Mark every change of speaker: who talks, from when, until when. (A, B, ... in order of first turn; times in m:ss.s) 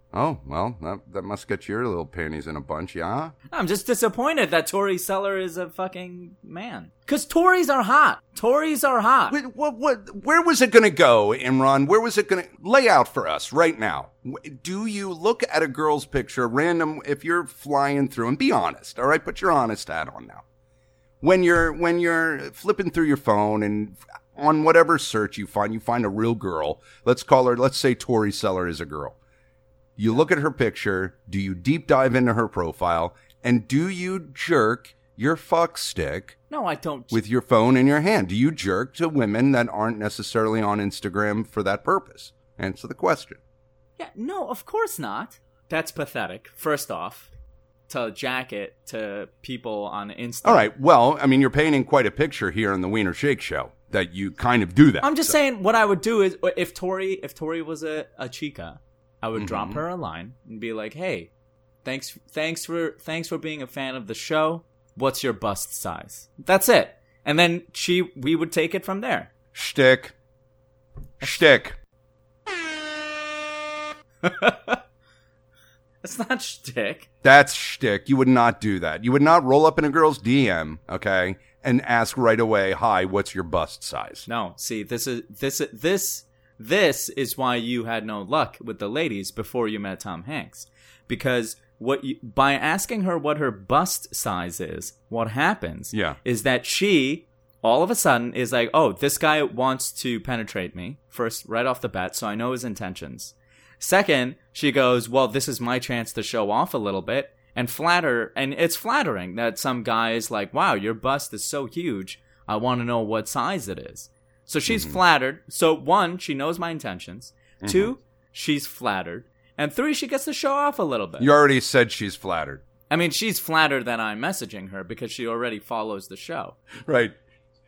0:00.1-0:03.3 A
0:03.5-0:09.4 B
0:09.3-0:20.4 A
0:21.2-0:29.2 A
0:30.0-0:36.4 A
0:36.5-0:37.2 B
0:37.1-0:43.4 A
0:44.0-0:47.3 B
0:47.9-0:50.7 B
0:50.4-0:55.4 A
0:55.0-1:01.3 B
0:59.4-0:59.8 A
1:01.8-1:09.3 B
1:09.5-1:10.1 A
1:11.2-1:11.8 A
1:14.2-1:14.8 B
1:16.0-1:17.1 B
1:17.2-1:24.2 A
1:24.3-2:01.3 B
1:35.9-1:36.2 A
1:54.7-1:55.0 A
1:57.6-1:57.9 A
2:01.2-2:02.6 A
2:02.9-2:06.6 B
2:06.8-2:07.1 A